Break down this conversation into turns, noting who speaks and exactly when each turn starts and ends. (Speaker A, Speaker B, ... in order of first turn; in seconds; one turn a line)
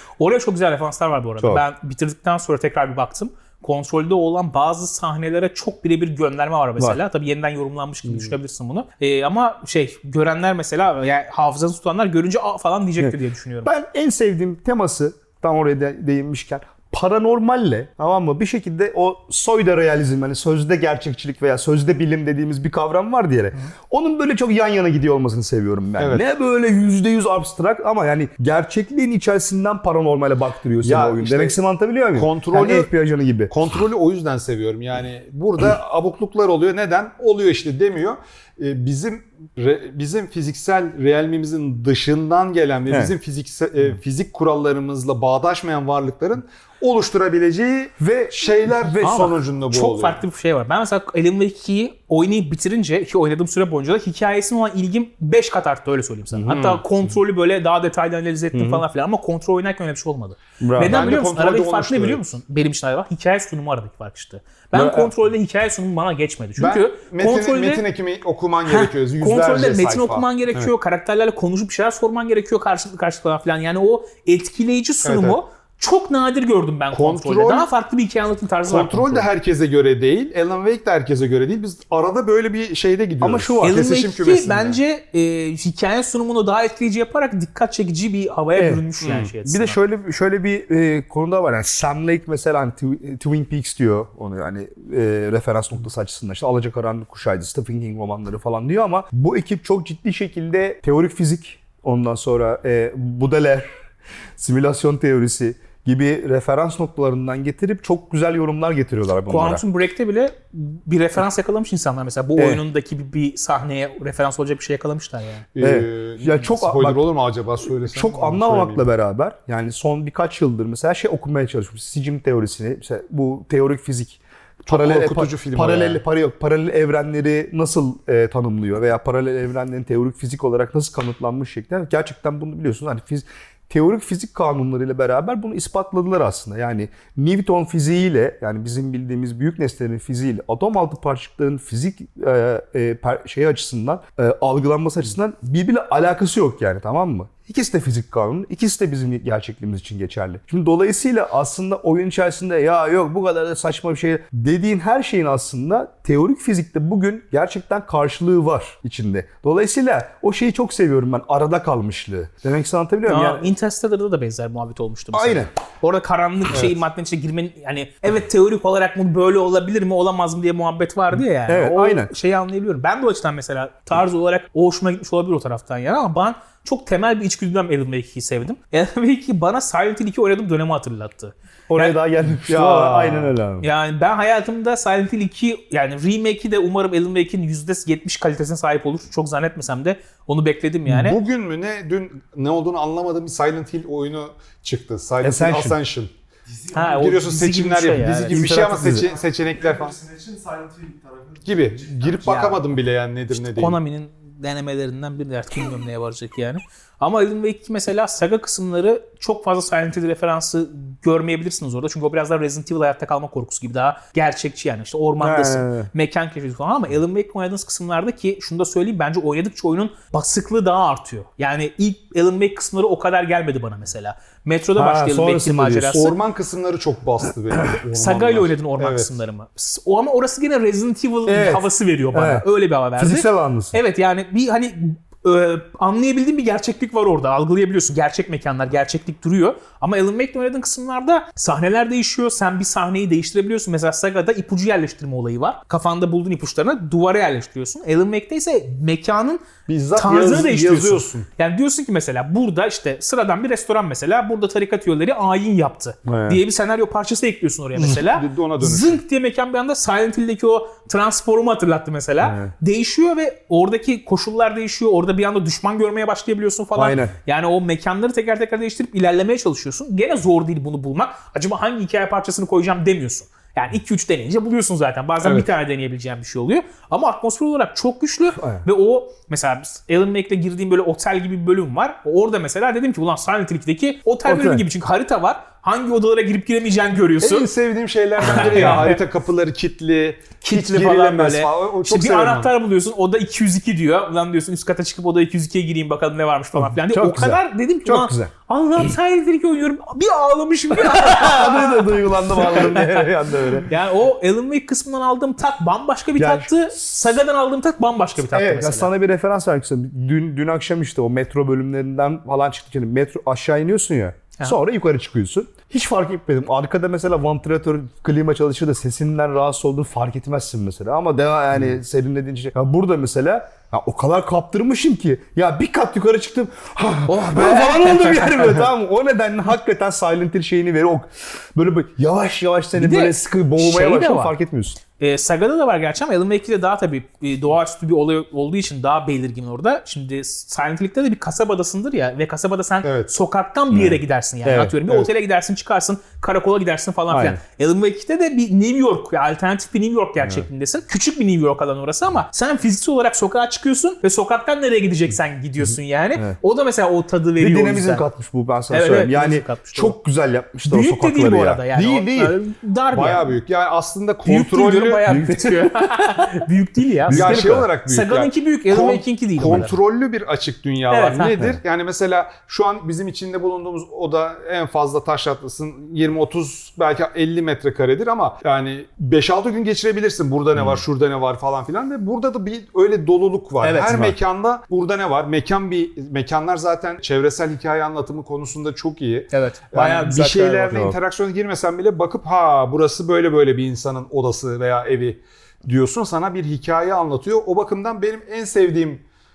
Speaker A: 0.2-13.7
Speaker B: 13.0-33.5
Speaker C: 26.0-26.2
Speaker C: 30.8-31.6
Speaker C: 32.1-32.9
Speaker C: 33.5-50.2
Speaker B: 42.9-43.1
Speaker B: 48.0-49.3
Speaker A: 49.0-67.8
Speaker B: 56.3-56.6
Speaker C: 56.5-56.8
Speaker B: 58.5-58.8
Speaker B: 60.6-61.0
Speaker C: 60.8-62.2
Speaker B: 64.7-65.1
Speaker C: 66.6-70.7
Speaker A: 68.7-79.3
Speaker C: 75.0-75.4
Speaker C: 76.9-77.7
Speaker C: 78.7-84.8
Speaker B: 83.2-83.9
Speaker A: 83.6-89.8
Speaker B: 88.5-88.8
Speaker C: 89.0-89.3
Speaker B: 89.4-103.7
Speaker B: 104.4-109.6
Speaker A: 109.3-115.4
Speaker B: 112.4-112.6
Speaker C: 115.5-118.8
Speaker B: 115.6-117.0
Speaker B: 117.9-163.5
Speaker C: 124.7-126.0
Speaker A: 163.1-182.0
Speaker B: 165.1-165.5
Speaker B: 171.4-172.1
Speaker B: 181.7-183.7
Speaker C: 182.4-183.3
Speaker A: 183.6-191.2
Speaker C: 190.9-196.1
Speaker B: 195.2-195.8
Speaker A: 196.7-198.7
Speaker C: 196.8-200.2
Speaker B: 198.2-199.1
Speaker C: 201.4-203.8
Speaker A: 202.2-202.6
Speaker A: 203.3-226.1
Speaker B: 215.2-215.9
Speaker B: 224.8-226.1
Speaker C: 225.9-229.1
Speaker A: 227.9-287.5
Speaker B: 231.2-232.4
Speaker B: 233.0-233.8
Speaker C: 249.7-251.3
Speaker B: 256.1-256.4
Speaker C: 257.9-259.0
Speaker B: 262.2-262.5
Speaker B: 266.8-267.1
Speaker C: 275.2-275.5
Speaker B: 278.4-278.6
Speaker B: 284.2-284.6
Speaker C: 287.2-292.5
Speaker A: 288.2-289.0
Speaker B: 288.2-288.9
Speaker A: 290.4-303.1
Speaker B: 296.6-298.3
Speaker B: 300.7-303.7
Speaker A: 303.6-308.9
Speaker B: 306.2-307.0
Speaker B: 308.3-334.8
Speaker A: 327.1-328.7
Speaker A: 332.8-334.3
Speaker A: 335.0-358.0
Speaker C: 342.8-343.1
Speaker B: 343.7-344.8
Speaker B: 347.1-347.4
Speaker B: 350.2-350.5
Speaker B: 357.4-362.4
Speaker A: 358.7-359.9
Speaker A: 360.7-363.3
Speaker C: 362.9-365.1
Speaker A: 364.2-369.7
Speaker B: 365.1-366.5
Speaker B: 367.0-367.7
Speaker C: 367.1-399.0
Speaker A: 370.9-371.4
Speaker A: 383.6-384.1
Speaker B: 383.9-384.1
Speaker A: 389.3-390.8
Speaker B: 390.7-391.0